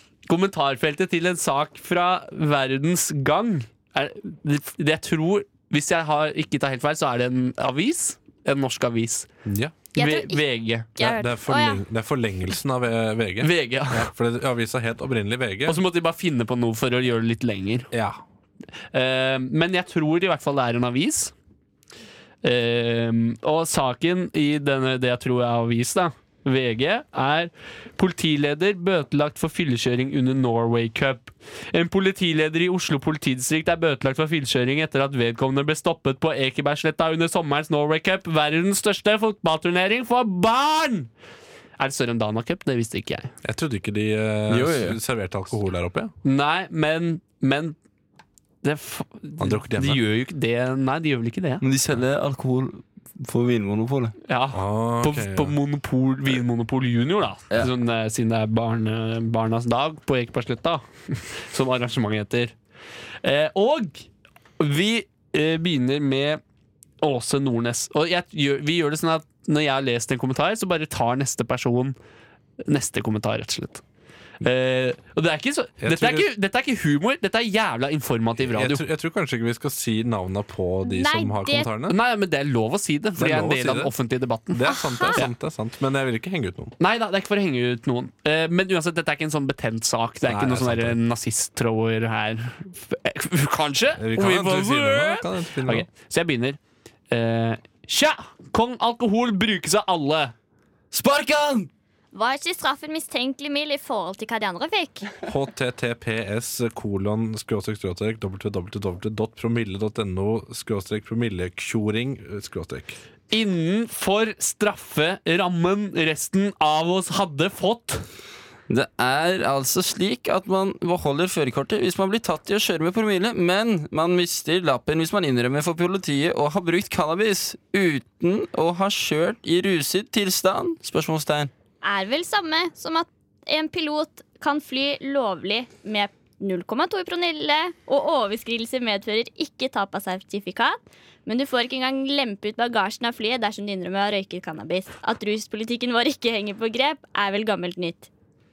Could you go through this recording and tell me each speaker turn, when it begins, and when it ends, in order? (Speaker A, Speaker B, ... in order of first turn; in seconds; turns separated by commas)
Speaker A: 0.3-9.3, Speaker B: 9.4-9.8, Speaker C: 10.0-10.4, Speaker A: 10.0-11.0, Speaker C: 11.0-11.8, Speaker B: 11.0-15.8, Speaker A: 13.4-14.1, Speaker A: 15.7-17.9, Speaker B: 17.9-18.2, Speaker A: 18.9-21.3, Speaker A: 22.4-41.1, Speaker A: 41.8-43.3, Speaker B: 43.4-46.1, Speaker D: 44.5-45.0, Speaker A: 46.2-47.8, Speaker A: 48.6-51.6, Speaker B: 49.4-50.0, Speaker D: 51.6-54.1, Speaker A: 54.3-62.5, Speaker B: 54.5-55.6, Speaker A: 63.2-64.0, Speaker A: 64.6-66.4, Speaker A: 67.0-72.0, Speaker A: 72.7-73.8, Speaker A: 74.4-78.8, Speaker B: 75.8-76.3, Speaker B: 78.4-82.0, Speaker C: 80.8-81.7, Speaker A: 81.9-84.6, Speaker B: 83.2-83.9, Speaker B: 84.5-86.8, Speaker C: 84.7-85.2, Speaker A: 86.8-96.6, Speaker B: 90.2-91.0, Speaker B: 94.0-95.9, Speaker A: 97.1-100.3, Speaker D: 100.9-101.7, Speaker C: 102.1-105.1, Speaker B: 105.3-113.0, Speaker A: 113.3-118.0, Speaker D: 118.7-131.5, Speaker C: 131.8-148.1